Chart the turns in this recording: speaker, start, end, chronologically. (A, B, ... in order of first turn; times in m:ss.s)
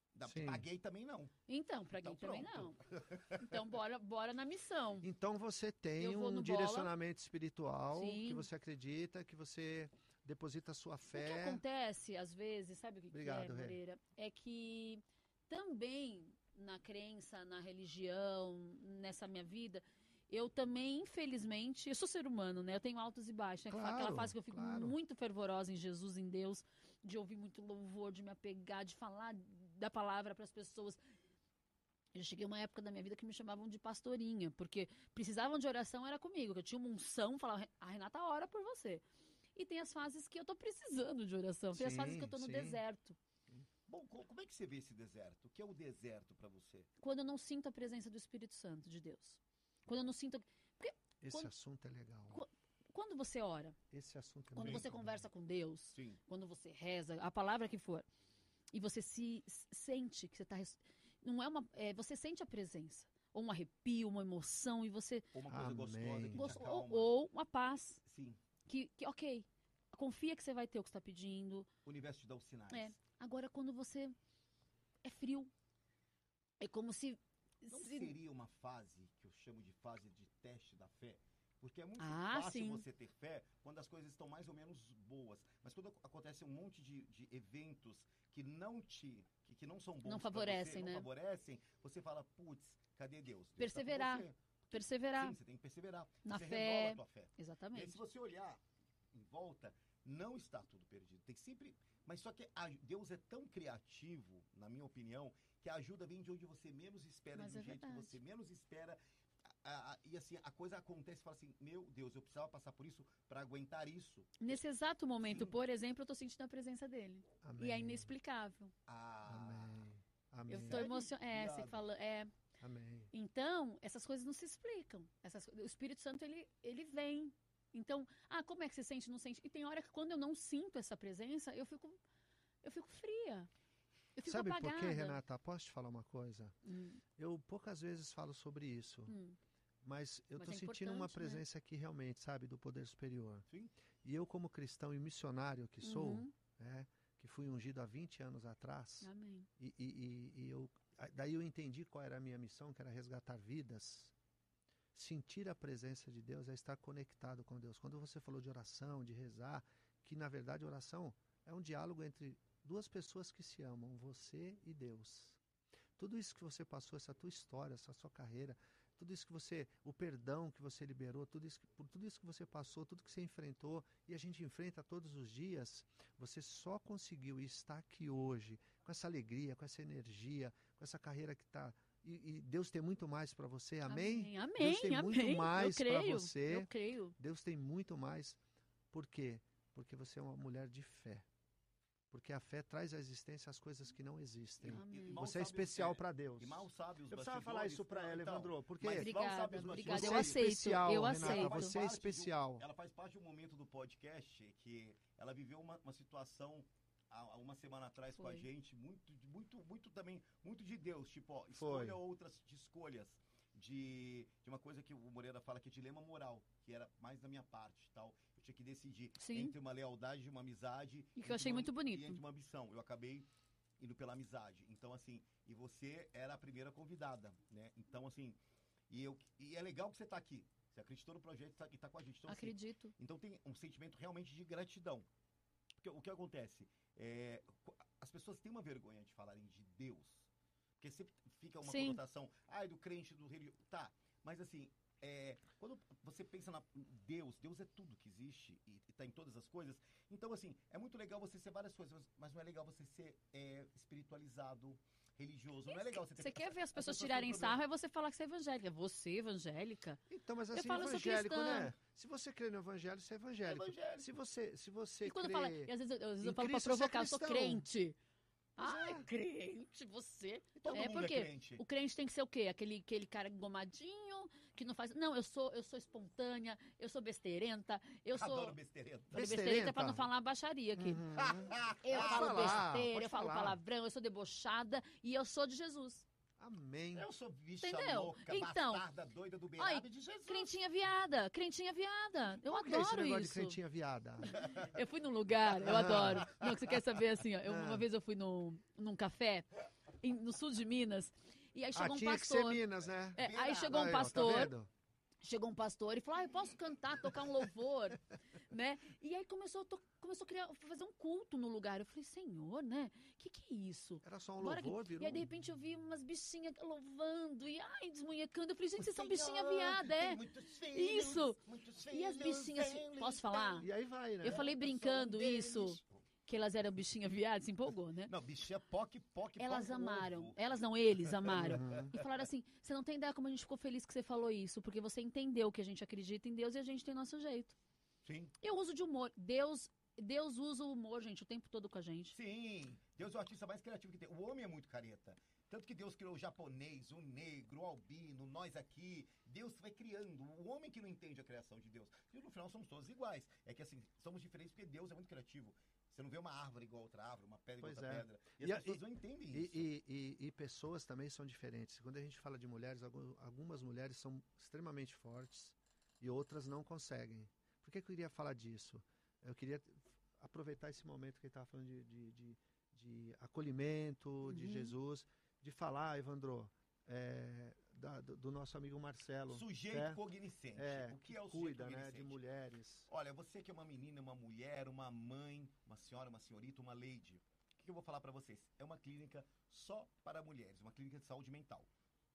0:00.1-0:01.3 A
0:00.2-0:00.6 B
0:01.5-0:02.8 C
0:02.0-0:03.6 A
0:03.4-0:05.1 C
0:05.0-0:11.6 B
0:06.0-0:06.9 C
0:07.9-0:08.5 C
0:11.1-0:31.0 C
0:13.1-0:13.8 B
0:23.7-0:25.0 B
0:32.1-0:39.0 C
0:39.6-0:43.2 C
0:41.7-0:42.8 B
0:43.9-0:46.9 A
0:47.0-0:51.5 C
0:51.2-0:52.4 B
0:52.3-0:53.8 C
0:53.9-0:55.1 B
0:54.5-0:58.0 C
0:54.6-0:54.9 A
0:55.9-0:56.2 A
0:58.7-1:05.3 C
1:05.3-1:07.1 A
1:05.5-1:06.5 B
1:06.3-1:08.0 C
1:08.0-1:08.4 A
1:08.7-1:11.7 C
1:11.8-1:12.9 A
1:12.7-1:14.1 C
1:15.0-1:15.5 C
1:16.6-1:18.1 C
1:17.7-1:38.6 A
1:22.0-1:22.8 C
1:30.0-1:31.1 C
1:33.6-1:35.4 C
1:36.2-1:38.0 C
1:39.1-1:54.6 A
1:47.3-1:48.2 C
1:54.4-1:58.7 C
1:55.2-1:55.6 A
1:57.4-1:58.1 B
1:58.9-1:59.9 A
1:59.3-2:00.8 B
2:00.5-2:02.3 C
2:00.5-2:01.8 A
2:02.6-2:03.1 B
2:03.1-2:12.0 C
2:12.6-2:13.5 C
2:14.1-2:15.2 C
2:14.2-2:16.6 B
2:16.6-2:17.0 C
2:17.2-2:19.2 B
2:19.1-2:19.4 C
2:19.8-2:23.4 B
2:20.4-2:21.4 C
2:24.0-2:34.1 B
2:25.8-2:26.3 C
2:29.0-2:29.5 C
2:34.9-2:45.4 B
2:46.0-3:08.4 B
3:03.8-3:07.2 C
3:08.9-3:11.2 B
3:12.1-3:22.6 B
3:14.6-3:43.3 A
3:14.7-3:15.2 C
3:18.9-3:21.8 C
3:28.1-3:28.5 C
3:31.5-3:32.0 B
3:39.2-3:39.5 C
3:41.2-3:42.2 C
3:43.8-3:48.4 A
3:48.9-3:55.1 A
3:52.3-3:52.9 C
3:55.8-4:00.3 A
4:00.8-4:17.6 A
4:01.6-4:02.0 C
4:15.7-4:20.0 C
4:20.1-4:27.6 B
4:20.5-4:21.7 C
4:23.4-4:24.1 A
4:25.0-4:28.0 C
4:28.6-4:38.5 C
4:28.6-4:29.1 B
4:30.6-4:31.6 A
4:38.1-4:39.2 A
4:39.1-4:40.1 B
4:39.1-4:41.1 C
4:40.8-4:43.6 B
4:41.1-4:42.7 A
4:41.8-4:46.0 C
4:46.4-4:47.1 B
4:46.9-4:50.5 A
4:47.6-4:48.8 C
4:49.6-4:53.6 C
4:52.4-4:54.3 B
4:54.2-5:04.5 C
4:54.4-4:54.7 A
4:55.6-4:56.3 B
4:57.4-4:57.8 B
5:01.7-5:04.7 B
5:03.2-5:04.4 A
5:05.2-5:20.2 C
5:14.0-5:15.2 B
5:18.8-5:23.7 A
5:20.7-5:23.7 C
5:23.6-5:24.5 B
5:24.2-5:26.0 A
5:24.2-5:28.1 C
5:28.1-5:30.4 A
5:29.4-5:37.6 C
5:30.9-5:32.1 A
5:31.4-5:31.9 B
5:38.0-5:38.3 A
5:38.4-5:42.1 C
5:42.1-5:59.6 A
5:57.6-5:58.8 B
5:59.3-6:20.0 B
6:14.2-6:14.7 C
6:19.3-6:22.2 A
6:20.6-6:22.9 B
6:22.9-6:31.7 A